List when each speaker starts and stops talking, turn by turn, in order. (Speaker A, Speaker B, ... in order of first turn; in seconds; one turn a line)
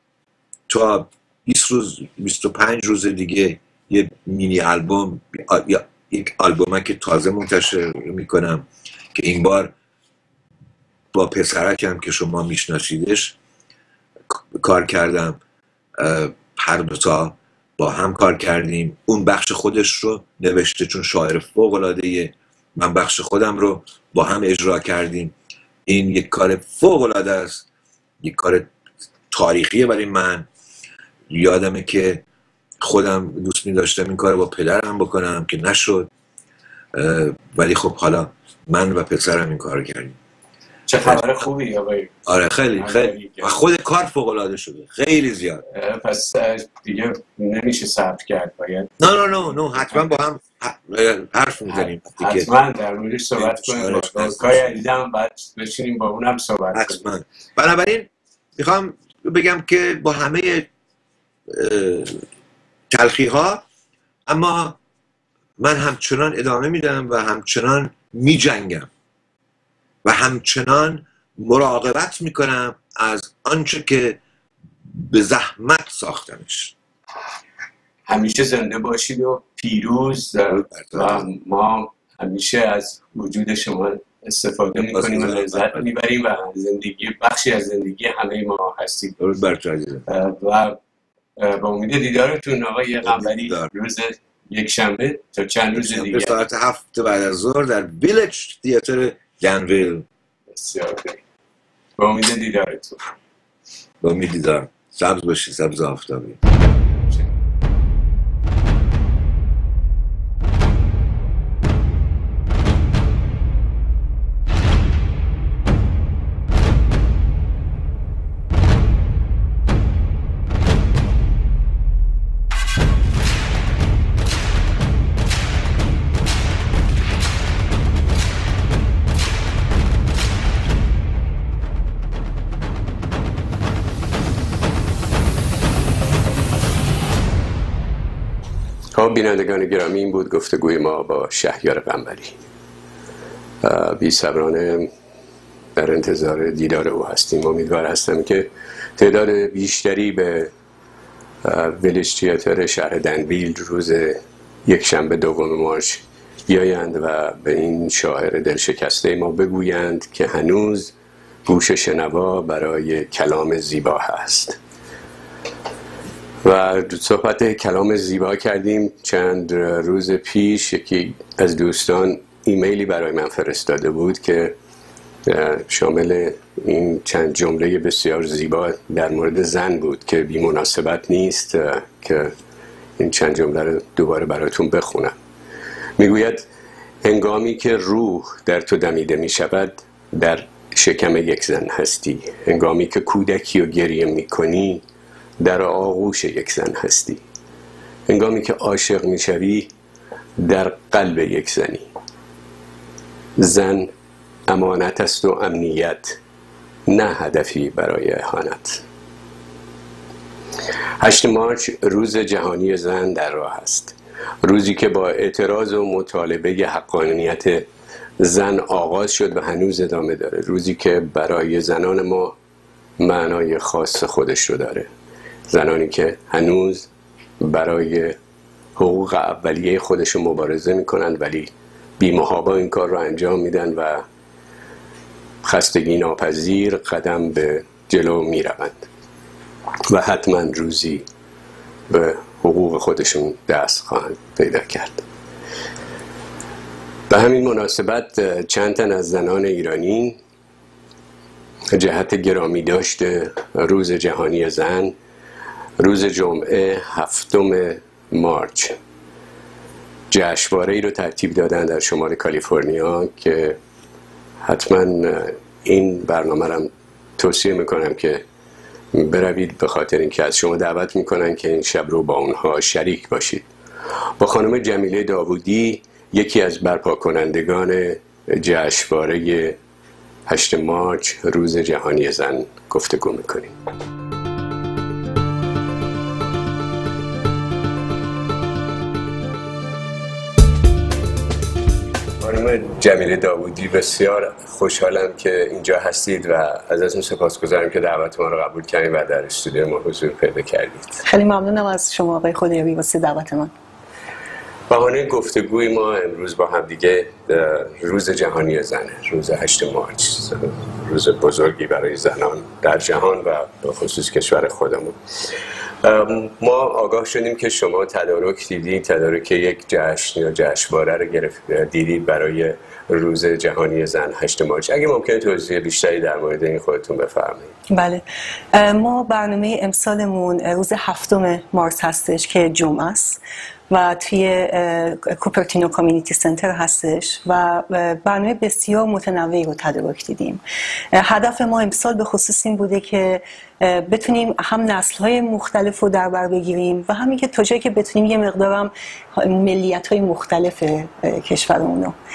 Speaker A: 0.7-9.7
Speaker A: 11.1-13.4
Speaker A: 14.5-15.4
Speaker A: 16.0-25.3
Speaker A: 25.9-27.6
Speaker A: 28.2-28.7
Speaker A: 29.3-30.5
Speaker A: 31.3-32.2
Speaker A: 32.8-36.1
Speaker A: 36.9-40.1
Speaker B: 40.9-42.2
Speaker A: 41.0-41.5
Speaker A: 42.2-45.6
Speaker B: 42.7-43.6
Speaker B: 45.7-49.1
Speaker A: 49.0-52.5
Speaker B: 51.7-57.0
Speaker A: 53.4-54.8
Speaker A: 56.7-60.7
Speaker A: 61.5-62.2
Speaker A: 62.9-63.6
Speaker A: 64.3-64.8
Speaker A: 65.6-68.9
Speaker A: 70.0-74.2
Speaker A: 74.9-76.7
Speaker B: 78.1-89.2
Speaker A: 80.5-81.2
Speaker A: 84.7-85.9
Speaker A: 89.2-90.0
Speaker B: 90.1-90.8
Speaker B: 91.4-96.4
Speaker A: 93.0-93.7
Speaker A: 95.7-100.0
Speaker B: 100.5-101.2
Speaker B: 102.0-103.1
Speaker A: 104.0-106.4
Speaker C: 138.9-142.4
Speaker C: 143.6-144.9
Speaker C: 145.7-150.5
Speaker C: 151.4-160.9
Speaker C: 161.4-164.6
Speaker C: 166.4-174.6
Speaker C: 175.2-182.3
Speaker C: 183.0-185.1
Speaker C: 186.0-186.5
Speaker C: 187.0-194.8
Speaker C: 195.4-197.2
Speaker C: 198.1-199.7
Speaker C: 200.4-201.9
Speaker C: 203.4-203.9
Speaker C: 204.5-206.2
Speaker C: 206.9-208.8
Speaker C: 211.0-217.7
Speaker C: 218.2-222.3
Speaker C: 223.0-224.9
Speaker C: 225.5-226.9
Speaker C: 227.4-228.2
Speaker C: 228.8-234.0
Speaker C: 235.4-238.9
Speaker C: 239.9-241.0
Speaker C: 241.9-245.0
Speaker C: 247.1-250.2
Speaker C: 251.7-254.9
Speaker C: 255.8-258.8
Speaker C: 260.1-263.6
Speaker C: 264.4-268.2
Speaker C: 268.9-273.5
Speaker C: 274.2-279.6
Speaker C: 280.2-283.5
Speaker C: 292.2-301.0
Speaker D: 301.0-303.5
Speaker C: 304.7-315.0
Speaker C: 315.8-327.5
Speaker D: 327.7-340.4
Speaker D: 340.9-351.9